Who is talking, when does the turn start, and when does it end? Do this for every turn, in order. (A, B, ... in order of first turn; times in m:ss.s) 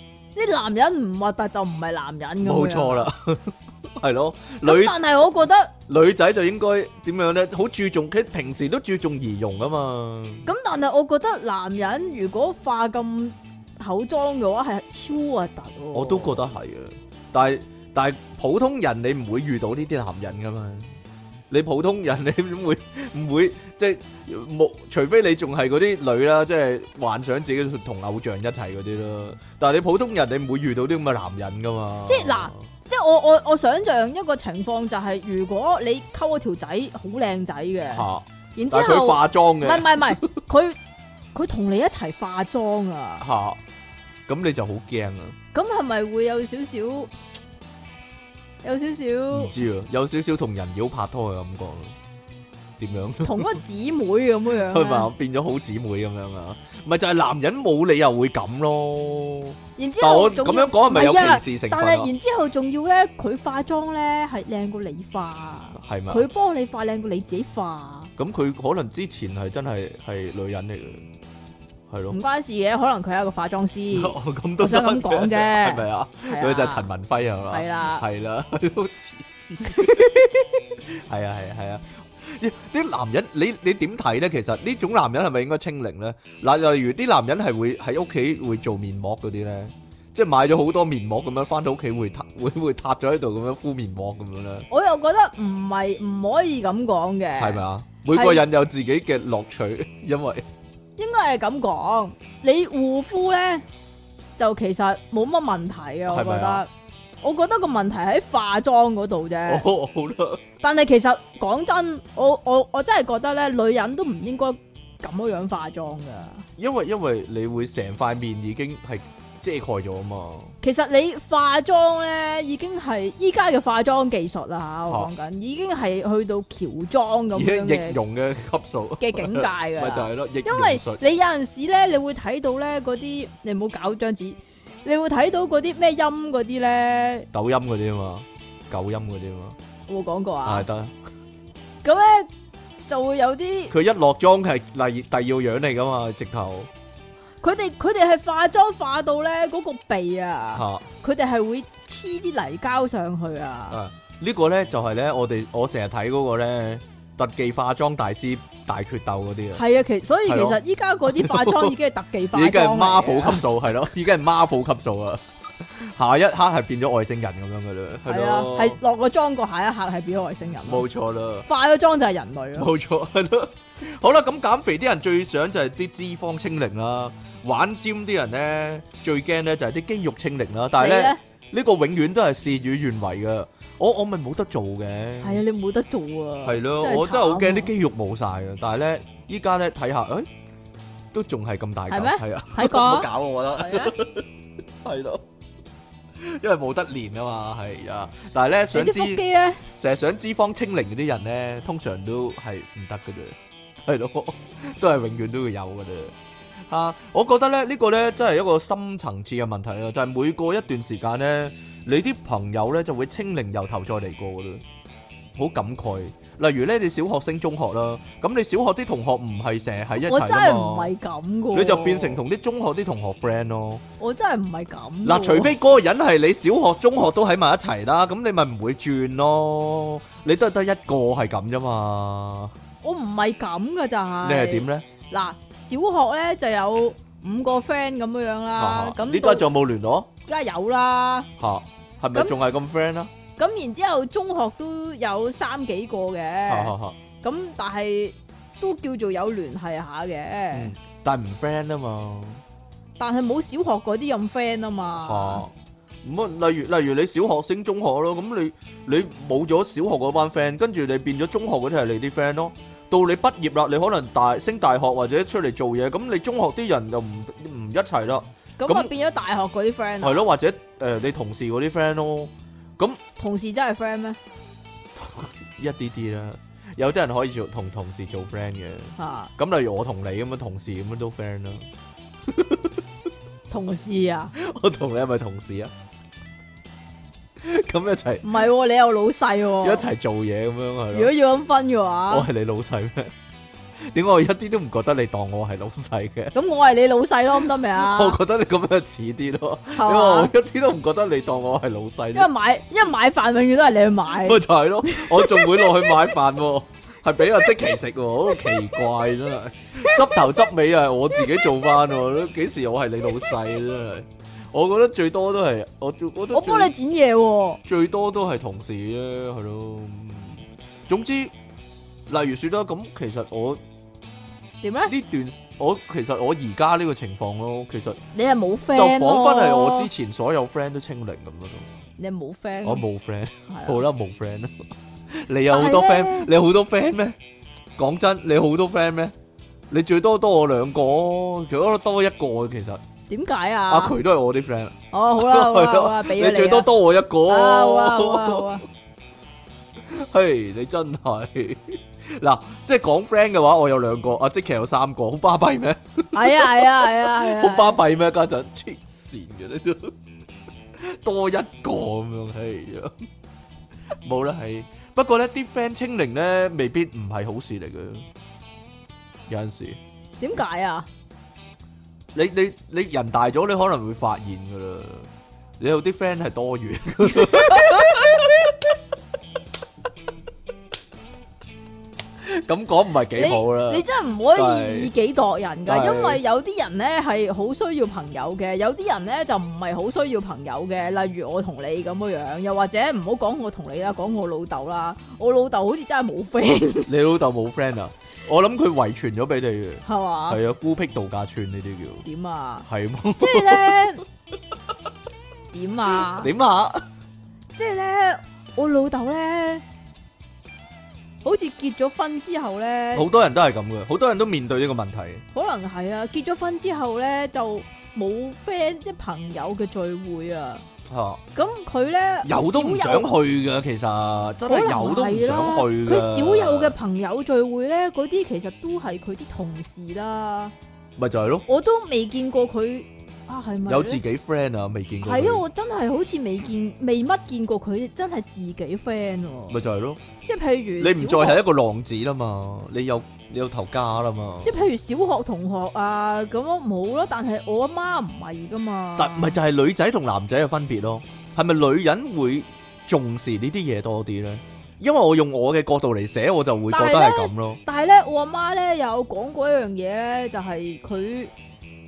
0:00.4-0:03.1 A
0:02.4-0:05.0 B
0:04.6-0:05.7 A
0:05.9-0:10.5 B
0:10.4-0:16.5 A
0:15.9-0:20.9 B
0:21.5-0:32.6 B
0:32.1-0:40.8 A
0:37.9-0:40.1 B
0:41.3-0:43.2 A
0:43.2-0:43.6 B
0:44.3-0:45.4 B
0:45.5-0:47.1 A
0:48.6-0:49.5 A
0:49.3-0:51.9 B
0:52.8-0:53.5 B
0:53.2-0:55.1 A
0:54.6-1:02.1 B
0:59.8-1:08.1 A
1:05.7-1:06.3 B
1:08.2-1:11.0 B
1:11.9-1:12.2 B
1:12.1-1:16.9 A
1:13.9-1:20.2 B
1:17.5-1:18.0 A
1:19.7-1:20.3 A
1:20.9-1:34.7 B
1:34.7-1:38.4 A
1:37.4-1:40.4 B
1:41.0-1:43.6 A
1:44.4-1:46.7 A
1:46.1-1:46.6 B
1:47.2-1:49.6 A
1:49.5-1:50.4 B
1:50.6-1:56.4 A
1:56.6-2:00.5 B
2:00.6-2:08.0 A
2:07.3-2:11.0 B
2:09.0-2:17.3 A
2:17.3-2:19.6 B
2:19.9-2:20.6 A
2:20.4-2:20.9 B
2:21.8-2:22.3 A
2:22.9-2:23.7 A
2:23.7-2:26.7 B
2:27.4-2:33.8 A
2:30.5-2:30.8 B
2:33.7-2:39.6 B
2:39.5-2:43.4 A
2:40.3-2:41.7 B
2:42.3-2:48.8 B
2:48.0-2:50.8 A
2:50.6-2:51.5 B
2:51.5-2:52.7 A
2:52.6-3:05.4 B
3:00.8-3:01.2 A
3:05.2-3:07.7 A
3:06.4-3:10.3 B
3:11.1-3:14.3 B
3:11.9-3:14.0 A
3:14.8-3:15.2 B
3:16.2-3:26.1 B
3:18.7-3:19.6 A
3:26.7-3:34.6 B
3:35.3-3:40.9 B
3:40.0-3:42.2 A
3:41.5-3:43.8 B
3:44.0-3:45.5 A
3:45.0-3:52.5 B
3:52.8-3:59.4 A
3:54.2-3:54.9 B
3:58.6-4:00.1 B
4:00.2-4:01.3 A
4:01.4-4:03.1 B
4:03.4-4:10.7 A
4:06.5-4:07.0 B
4:10.5-4:12.4 B
4:13.0-4:15.4 A
4:15.0-4:15.5 B
4:16.0-4:28.9 B
4:28.6-4:30.2 A
4:30.0-4:33.0 B
4:33.2-4:34.2 A
4:35.0-4:41.7 B
4:39.0-4:39.3 A
4:42.3-4:42.8 B
4:43.5-4:44.3 A
4:44.3-4:45.7 B
4:47.4-4:48.2 B
4:48.2-4:49.9 A
4:49.6-4:51.1 B
4:50.9-4:52.3 A
4:52.1-4:53.1 B
4:53.9-4:56.3 B
4:56.3-4:58.2 A
4:57.4-5:02.3 B
4:59.8-5:00.3 A
5:02.1-5:06.1 A
5:04.1-5:16.7 B
5:09.8-5:10.2 A
5:16.3-5:17.6 A
5:17.6-5:21.3 B
5:22.1-5:23.6 B
5:24.6-5:24.9 A
5:24.9-5:28.0 B
5:28.1-5:29.9 A
5:28.7-5:31.7 B
5:32.0-5:32.8 A
5:32.6-5:34.5 B
5:33.5-5:33.8 A
5:35.1-5:37.2 B
5:35.5-5:36.3 A
5:37.8-5:39.1 B
5:39.7-5:42.8 B
5:43.1-5:44.0 A
5:43.7-5:48.6 B
5:44.9-5:46.7 A
5:47.2-5:48.6 A
5:49.8-6:00.0 B
5:56.1-5:57.8 A
6:00.8-6:02.9 B
6:04.0-6:08.0 B
6:09.3-6:09.8 B
6:10.2-6:10.9 A
6:12.1-6:15.1 B
6:15.6-6:18.7 B
6:17.3-6:17.7 A
6:22.2-6:24.9 B
6:23.1-6:36.9 A
6:25.6-6:26.2 B
6:36.9-6:42.0 B
6:39.8-6:40.4 A
6:42.0-6:42.6 A
6:42.6-6:43.9 B
6:43.2-6:44.0 A
6:45.5-6:46.3 A
6:45.9-6:46.8 B
6:47.6-6:49.6 A
6:51.2-6:53.1 A
6:52.9-6:55.2 B
6:55.3-7:00.6 A
7:00.8-7:01.2 B
7:01.3-7:03.1 A
7:02.2-7:06.7 B
7:04.5-7:10.5 A
7:11.0-7:11.4 B
7:11.5-7:14.0 A
7:13.7-7:15.4 B
7:15.0-7:19.6 A
7:19.5-7:20.0 B
7:20.2-7:21.4 A
7:20.8-7:24.5 B
7:24.4-7:29.4 A
7:29.0-7:37.6 B
7:36.7-7:41.3 A